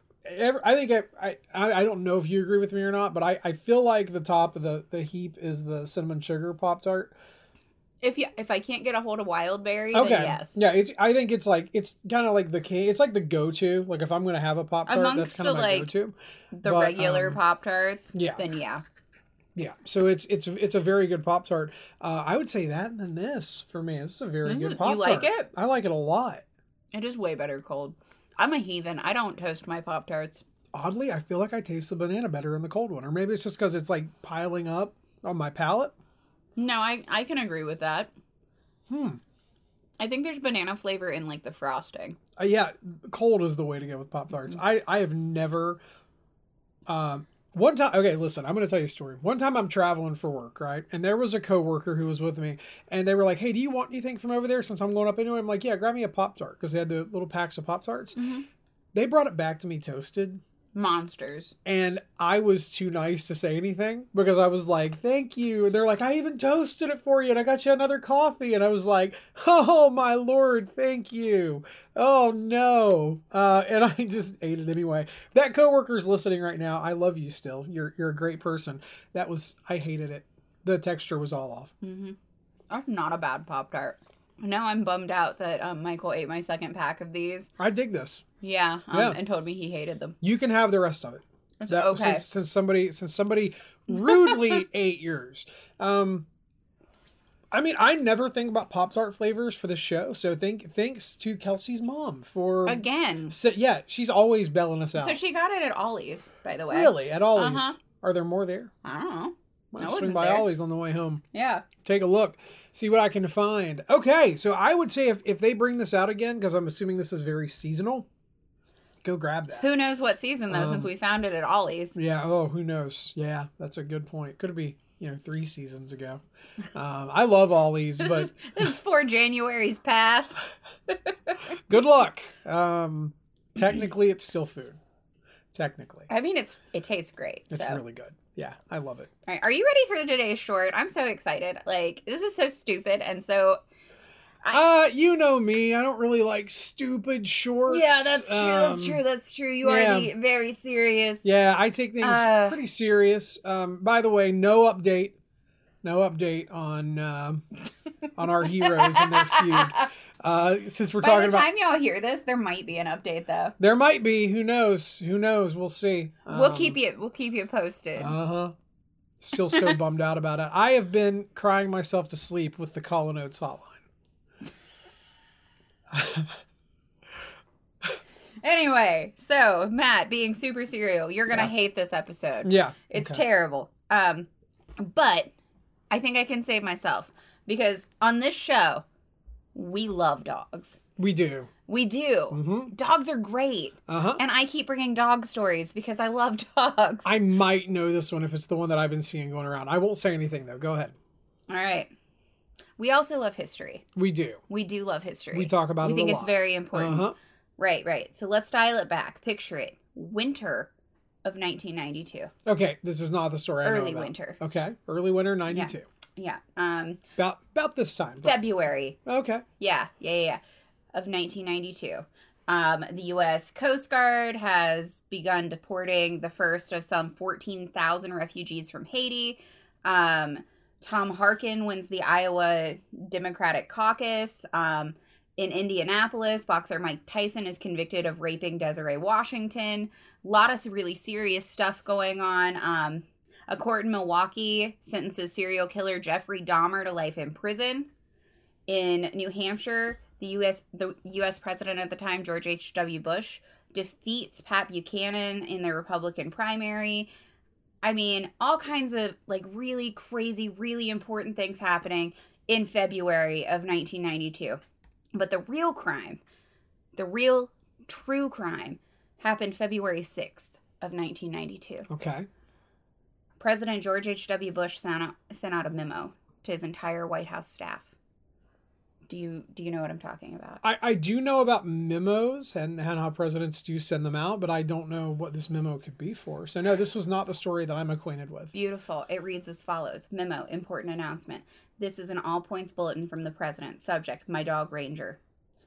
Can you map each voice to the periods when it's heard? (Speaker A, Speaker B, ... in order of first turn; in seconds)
Speaker A: 0.2-7.1, 9.9-17.4, 18.1-18.4, 19.6-26.4, 30.7-35.9, 38.9-39.2, 42.4-45.8, 46.9-58.2, 58.9-60.4, 61.6-81.7, 87.6-88.2, 88.9-89.2, 90.2-96.3, 97.5-105.2, 106.7-108.7, 109.7-111.2, 111.8-118.1, 119.0-119.7, 120.5-120.9, 122.0-126.2, 126.7-128.5, 131.7-134.8, 135.5-136.1, 137.5-139.1, 144.5-149.0, 149.6-150.1, 151.2-155.2, 155.8-157.4, 158.2-161.5, 163.6-166.8, 168.0-168.5, 169.2-173.8, 175.9-176.4, 182.4-183.2, 191.0-191.5, 192.3-192.7, 193.9-194.2, 197.0-200.9, 203.9-204.4, 205.3-207.1, 212.4-215.8, 217.2-218.4, 219.1-219.4, 271.9-272.3, 280.6-288.5
Speaker B: 8.0-10.6, 14.9-15.9, 16.5-18.8, 24.4-25.5, 26.9-30.4, 36.6-38.1, 40.0-42.2, 58.1-58.5, 60.7-61.5, 81.8-82.2, 82.7-87.5, 88.4-90.2, 91.6-92.2, 94.0-94.6, 102.7-103.3, 104.9-107.8, 108.8-110.5, 111.3-111.6, 119.6-121.9, 128.0-130.4, 130.9-131.4, 136.1-137.8, 139.3-143.6, 147.7-151.3, 152.0-152.6, 158.4-159.9, 161.0-163.5, 166.3-168.2, 169.5-169.8, 178.4-184.3, 184.8-185.3, 185.9-188.8, 189.5-190.8, 191.7-197.1, 201.5-201.9, 202.8-203.8, 204.5-210.7, 211.2-212.3, 213.6-214.4, 215.5-217.0, 218.2-219.0, 219.6-220.4, 220.9-247.9, 248.7-257.1, 257.8-264.6, 265.1-266.2, 266.9-271.9, 273.4-277.9, 279.1-280.6, 288.5-295.2